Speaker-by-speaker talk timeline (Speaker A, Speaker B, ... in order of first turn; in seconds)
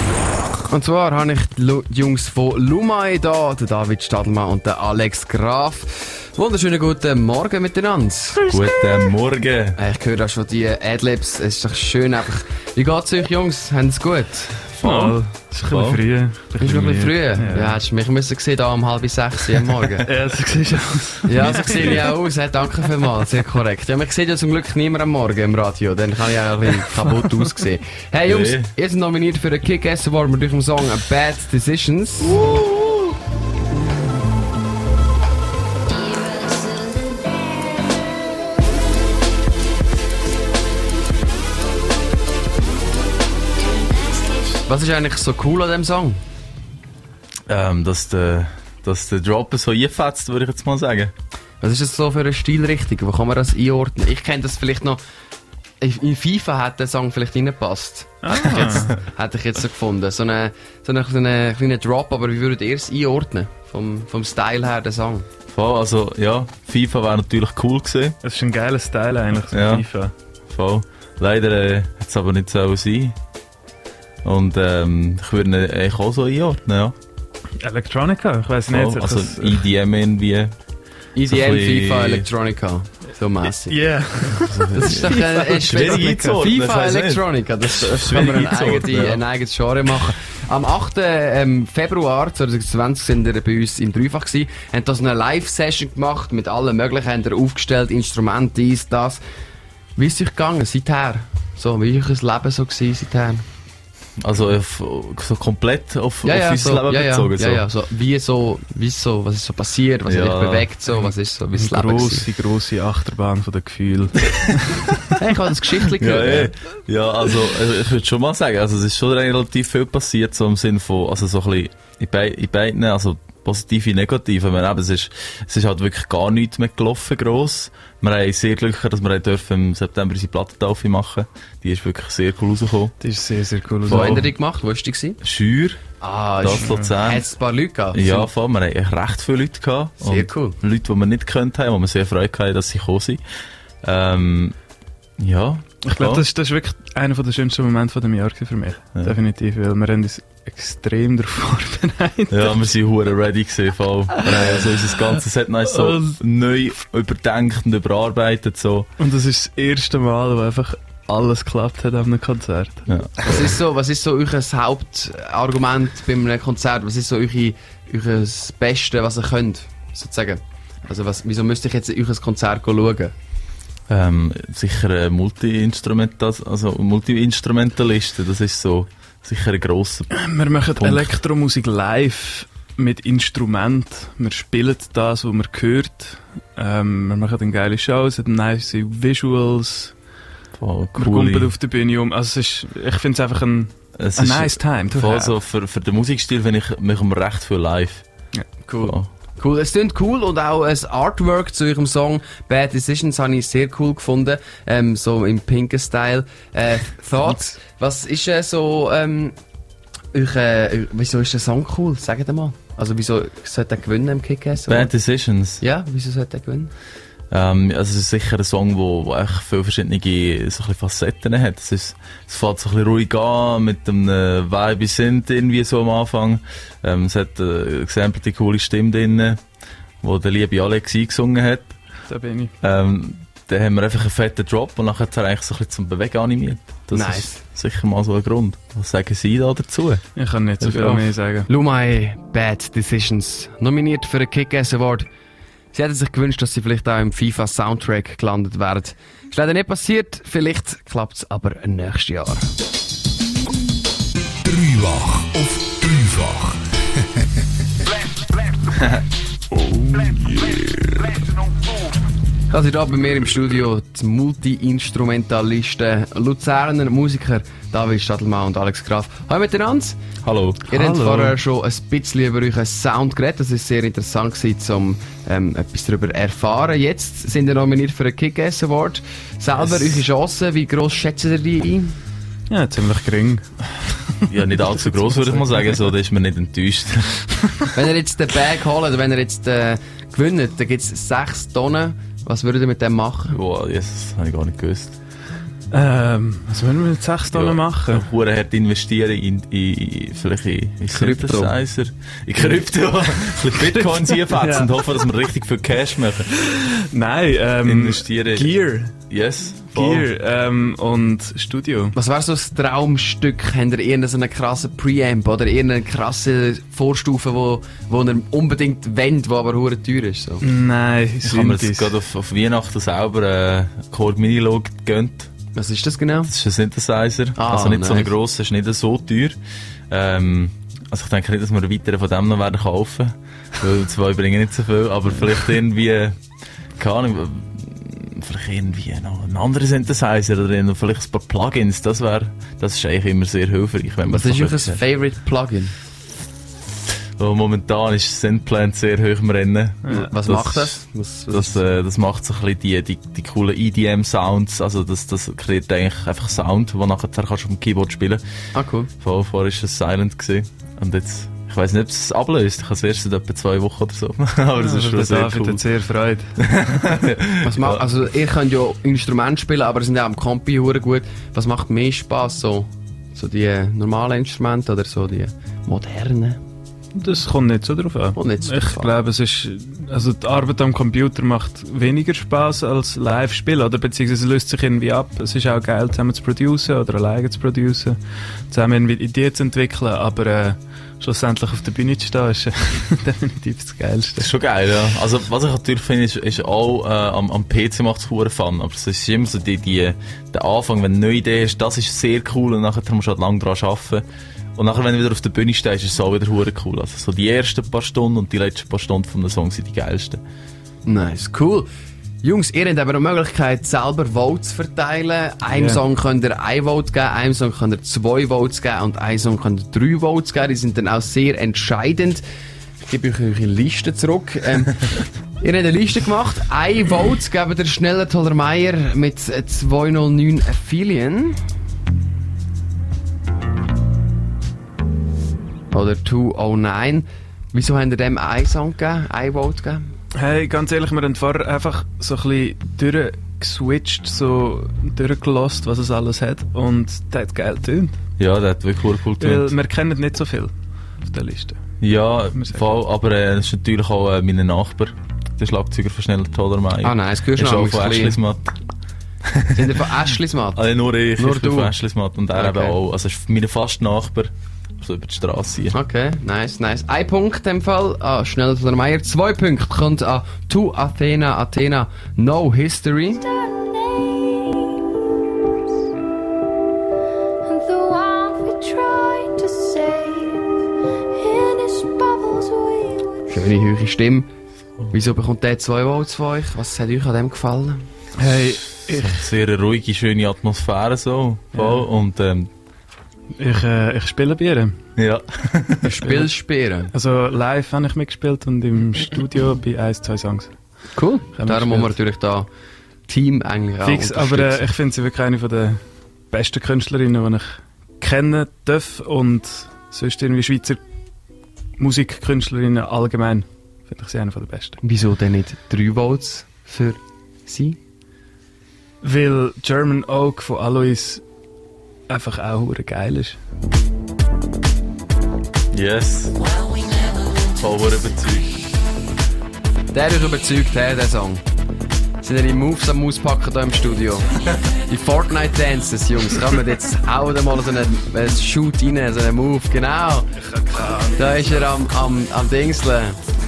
Speaker A: 0.7-8.5, 9.8-14.6, 16.6-20.1, 21.3-32.4, 44.7-46.2, 51.6-55.0, 55.8-65.3, 81.2-83.8, 84.8-99.2, 100.0-103.4, 106.2-112.3, 115.2-116.5, 133.9-135.2, 136.0-138.3, 140.0-140.6, 163.2-173.1, 198.7-209.4, 210.1-214.9, 215.6-216.7, 236.9-237.4, 241.5-245.1, 245.7-252.5, 262.5-270.0, 270.7-281.9, 287.7-293.4, 300.9-301.5, 311.9-320.4, 325.6-326.3, 327.4-328.1, 344.1-345.7, 349.9-351.6, 358.5-358.9, 367.4-376.4, 378.1-378.9, 410.9-411.7, 412.2-422.2, 422.8-424.8, 425.4-431.4, 435.7-439.9, 456.8-458.2, 459.5-461.7, 462.3-462.8, 465.7-473.3, 483.3-484.3, 484.9-487.8, 495.8-496.9, 501.0-502.5, 503.1-504.6, 514.8-517.8, 529.9-531.4, 532.2-540.3, 541.2-543.2
Speaker B: 8.5-9.8, 14.8-16.0, 21.5-21.9, 28.3-28.7, 47.5-51.1, 65.5-68.2, 69.5-69.9, 70.5-73.2, 74.2-77.0, 78.7-80.5, 81.2-82.3, 84.5-89.2, 104.2-107.7, 110.1-110.7, 116.0-132.9, 133.9-134.3, 135.2-135.8, 136.4-137.2, 137.9-143.2, 143.8-144.6, 145.2-146.2, 152.3-158.9, 162.9-163.4, 173.9-180.1, 180.8-181.1, 190.5-191.5, 194.0-198.0, 198.8-199.1, 214.7-215.6, 217.3-229.4, 230.0-231.8, 232.6-240.0, 240.6-241.1, 270.2-270.7, 284.3-287.2, 293.3-295.0, 297.3-306.3, 307.6-308.6, 309.1-310.1, 321.2-325.3, 326.3-329.4, 329.9-336.2, 336.8-344.8, 347.2-358.2, 359.0-365.6, 366.4-367.8, 394.2-404.1, 404.6-410.2, 448.2-449.6, 451.8-458.6, 459.2-459.7, 460.6-465.8, 488.8-492.5, 495.0-496.1, 525.7-526.4, 527.5-528.6
Speaker C: 14.8-17.8, 20.1-22.1, 58.2-59.0, 68.2-70.1, 77.6-79.6, 83.4-86.5, 110.9-115.1, 133.0-134.3, 136.6-136.9, 145.9-152.6, 154.1-155.1, 155.7-156.2, 159.0-162.9, 180.1-189.9, 191.0-195.3, 232.1-232.5, 240.2-241.5, 270.7-271.4, 282.5-285.8, 295.7-298.1, 303.6-304.7, 306.4-308.9, 309.7-311.9, 320.4-321.9, 349.9-350.1, 364.6-366.4, 376.9-388.0, 388.5-394.3, 415.5-415.8, 440.2-448.0, 449.2-451.6, 452.3-452.8, 488.2-489.2, 491.5-491.9, 493.4-494.8, 496.0-496.3, 496.9-500.5, 501.4-501.9, 503.8-510.8, 511.8-514.8, 519.0-521.2, 522.1-523.4, 540.5-541.6
Speaker D: 254.4-256.6
Speaker E: 473.2-474.8, 477.4-480.5, 481.1-483.3